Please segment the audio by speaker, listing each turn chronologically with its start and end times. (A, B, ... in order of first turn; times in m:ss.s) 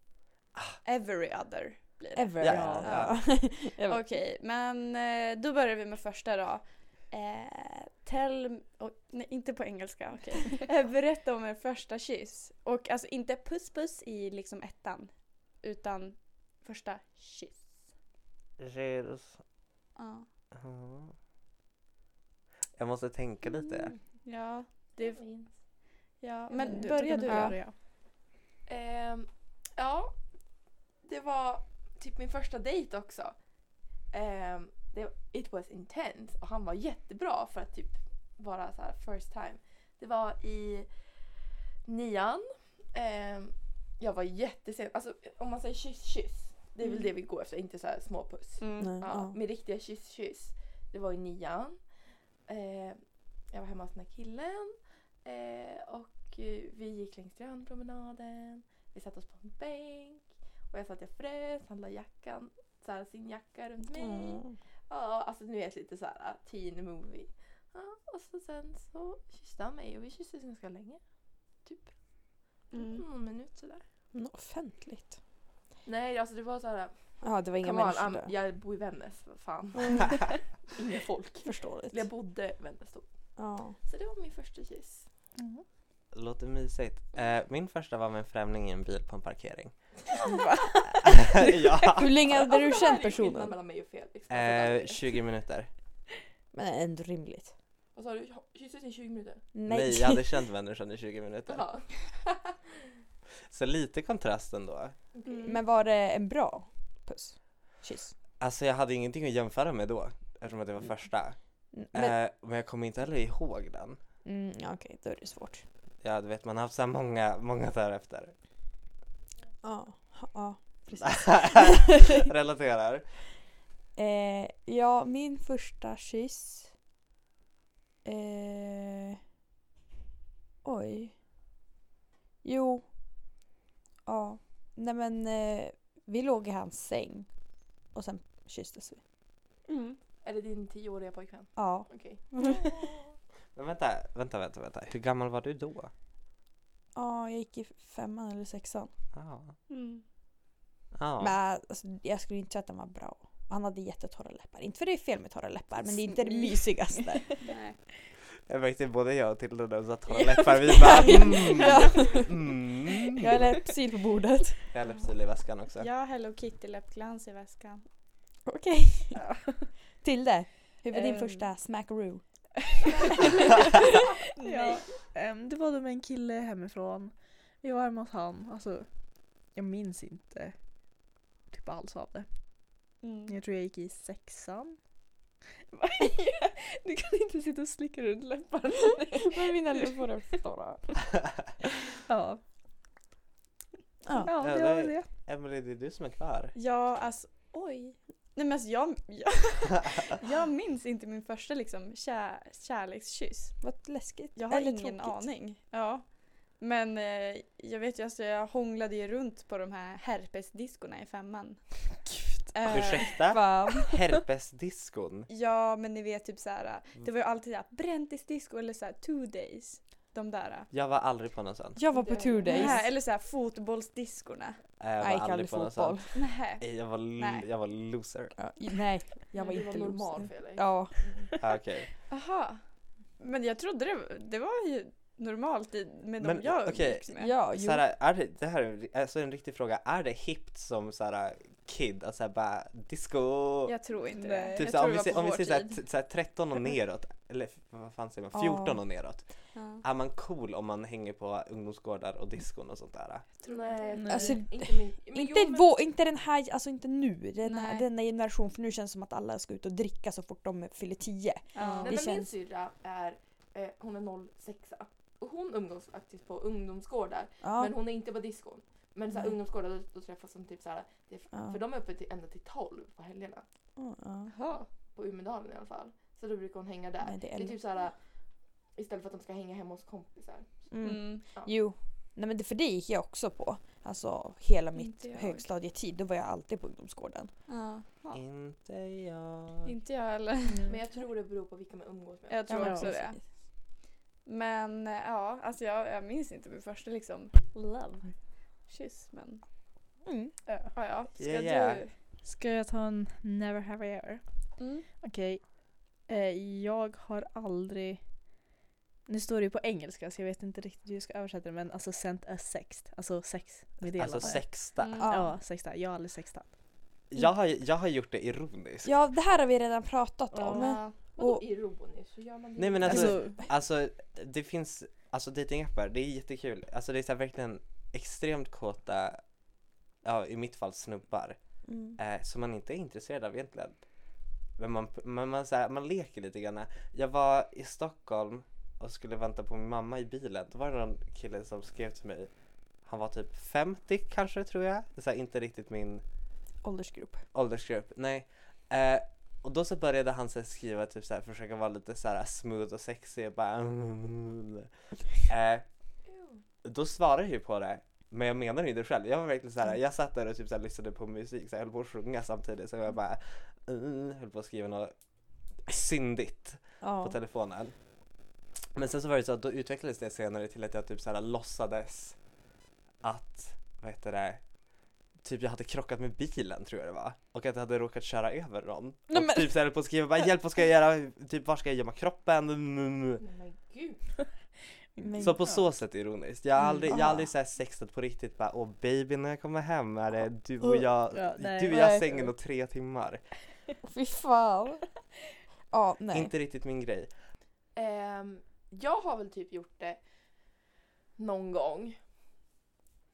0:00.8-0:17.8 A
0:02.2-0:04.0 B
0:02.4-0:03.2 C
0:02.4-0:03.1 D
0:18.6-0:19.4 C
0:20.0-0:20.3 A
0:20.5-0:21.1 C
0:22.8-0:23.9 C
0:24.2-0:25.2 A
0:25.0-0:25.5 E
0:26.2-0:27.6 A
0:26.6-0:27.8 D
0:27.2-0:27.6 B
0:28.7-0:30.2 E
0:31.0-0:33.4 E
0:34.1-0:40.9 E
0:41.8-0:51.8 E
0:48.6-0:49.0 A
0:48.8-0:49.4 B
0:52.5-0:53.0 E
0:53.5-1:11.0 E
1:03.9-1:04.6 B
1:11.6-1:11.9 E
1:12.7-1:13.0 A
1:12.7-1:13.8 E
1:14.1-1:15.2 B
1:15.8-1:16.9 E
1:17.2-1:18.3 B
1:17.6-1:23.1 E
1:19.7-1:20.2 B
1:21.4-1:22.1 B
1:23.4-1:23.8 B
1:23.8-1:25.1 E
1:25.4-1:25.6 D
1:26.1-1:29.7 C
1:30.8-1:33.5 B
1:31.0-1:32.2 C
1:32.3-1:35.2 E
1:34.3-1:35.7 C
1:36.5-1:37.5 B
1:38.0-1:39.4 E
1:39.5-1:40.4 B
1:39.7-1:41.6 C
1:41.5-1:42.6 E
1:43.5-1:45.0 C
1:45.1-1:45.6 E
1:45.3-1:45.6 A
1:45.4-1:48.2 B
1:48.4-1:51.4 C
1:51.7-1:52.2 B
1:51.9-1:54.0 C
1:54.2-1:55.6 B
1:56.0-1:58.3 C
1:59.6-2:02.1 B
2:01.0-2:03.2 C
2:04.0-2:06.7 B
2:08.0-2:09.2 B
2:10.6-2:11.1 B
2:12.4-2:12.8 B
2:14.1-2:17.3 B
2:17.9-2:19.0 B
2:19.7-2:20.0 A
2:20.2-2:22.4 E
2:21.6-2:21.9 B
2:22.4-2:22.7 A
2:23.6-2:25.9 C
2:27.0-2:28.9 B
2:29.1-2:29.6 C
2:29.7-2:30.0 A
2:31.0-2:31.4 C
2:31.2-2:37.4 B
2:37.4-2:37.8 A
2:38.5-2:43.5 C
2:40.1-2:42.2 D
2:40.8-2:42.6 B
2:43.1-2:44.7 B
2:44.7-2:45.9 C
2:45.8-2:47.8 A
2:48.5-2:49.2 B
2:49.2-2:49.7 D
2:50.0-2:52.9 B
2:50.9-2:51.5 D
2:54.4-2:54.8 A
2:54.4-3:00.6 D
3:01.5-3:02.3 D
3:03.0-3:03.4 A
3:03.3-3:04.8 D
3:05.7-3:09.9 D
3:09.1-3:10.9 B
3:12.1-3:12.4 D
3:14.0-3:14.3 B
3:14.2-3:15.1 D
3:14.4-3:16.5 C
3:16.6-3:23.6 A
3:23.6-3:25.3 B
3:24.4-3:26.0 A
3:26.6-3:33.1 A
3:32.7-3:35.3 C
3:33.3-3:33.9 B
3:35.3-3:40.7 A
3:40.7-3:41.8 C
3:41.8-3:42.9 B
3:41.9-3:42.8 E
3:42.4-3:44.6 A
3:44.8-3:48.4 C
3:45.0-3:46.1 B
3:46.2-3:47.5 A
3:48.4-3:51.0 B
3:49.4-3:51.3 E
3:51.4-3:51.9 C
3:52.1-3:52.6 A
3:53.2-3:57.3 A
3:56.2-4:03.8 C
3:57.2-3:57.8 B
4:03.7-4:05.8 A
4:04.2-4:04.7 D
4:04.6-4:09.3 C
4:08.3-4:08.8 B
4:09.6-4:09.8 A
4:09.8-4:13.3 C
4:13.4-4:15.7 E
4:13.4-4:13.8 A
4:13.9-4:14.4 D
4:14.1-4:22.3 B
4:17.4-4:17.9 A
4:21.6-4:22.0 A
4:21.6-4:22.0 D
4:21.8-4:33.4 E
4:27.4-4:27.8 B
4:31.3-4:31.6 B
4:33.8-4:34.3 B
4:34.3-4:34.6 A
4:34.5-4:38.0 E
4:37.0-4:37.6 B
4:38.8-4:40.5 E
4:40.7-4:47.3 B
4:40.8-4:41.2 A
4:44.8-4:45.5 A
4:47.5-4:48.2 A
4:48.1-4:49.7 C
4:49.6-4:50.6 A
4:50.5-4:50.8 D
4:50.7-4:52.6 E
4:52.3-4:53.2 A
4:52.5-4:53.2 B
4:52.6-4:52.9 D
4:54.2-4:58.0 A
4:57.6-4:58.1 D
4:58.7-4:59.4 A
5:00.0-5:00.3 B
5:00.7-5:01.9 A
5:01.2-5:01.8 C
5:02.2-5:04.2 D
5:04.6-5:04.8 A
5:05.0-5:08.0 D
5:09.1-5:16.5 D
5:14.0-5:15.0 C
5:14.8-5:15.1 A
5:15.0-5:15.4 B
5:17.1-5:19.0 C
5:18.8-5:21.4 B
5:20.3-5:20.7 D
5:20.4-5:21.0 A
5:21.1-5:23.2 E
5:22.6-5:29.2 C
5:22.8-5:23.4 D
5:30.0-5:31.4 C
5:31.7-5:32.0 B
5:32.0-5:33.8 C
5:34.6-5:42.3 C
5:42.8-5:46.0 C
5:46.6-5:47.2 B
5:47.3-5:55.6 C
5:56.1-5:56.4 E
5:56.6-6:04.9 C
6:05.7-6:07.7 C
6:06.8-6:07.2 B
6:08.8-6:12.2 C
6:13.0-6:14.4 C
6:15.2-6:23.2 C
6:19.1-6:19.5 B
6:23.2-6:24.0 E
6:25.0-6:25.6 D
6:25.0-6:25.4 B
6:25.2-6:33.2 C
6:26.6-6:27.3 B
6:31.1-6:32.3 D
6:31.7-6:32.0 B
6:33.8-6:34.8 B
6:35.7-6:36.3 B
6:36.1-6:37.1 C
6:37.8-6:40.0 E
6:41.2-6:42.0 E